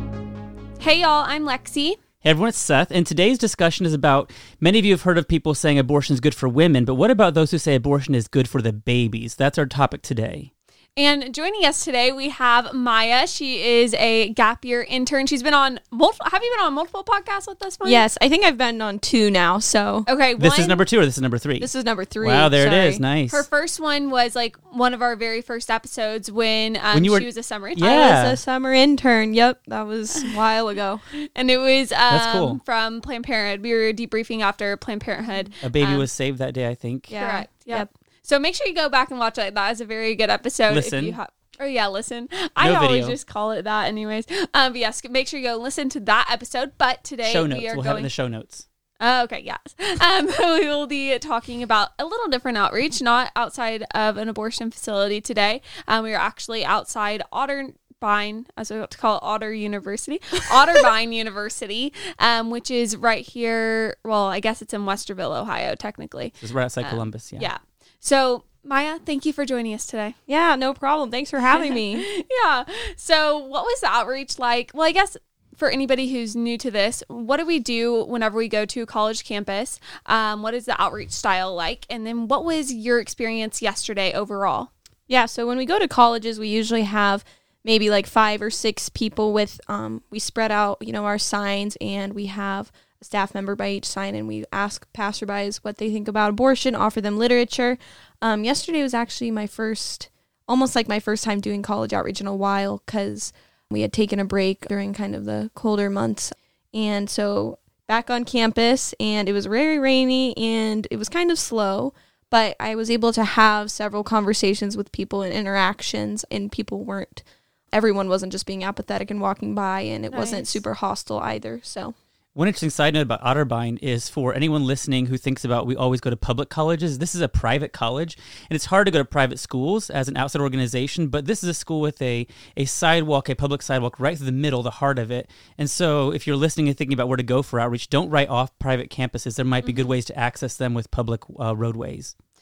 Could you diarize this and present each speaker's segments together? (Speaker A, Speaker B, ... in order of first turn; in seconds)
Speaker A: 0.8-2.0, 11.0-18.0, 20.1-20.8, 23.3-28.0, 31.1-36.1, 37.2-48.1, 49.0-70.2, 71.5-84.7, 120.1-120.6, 139.6-139.9
Speaker B: 2.2-10.5, 20.4-21.7, 22.2-23.4, 26.9-28.4, 32.1-32.6, 35.6-37.2, 40.7-41.2, 42.6-43.2, 47.2-48.6, 66.4-67.5, 122.3-142.1
Speaker C: 17.8-20.1, 21.6-23.0, 27.8-31.0, 37.1-37.9, 70.3-72.0, 85.1-121.9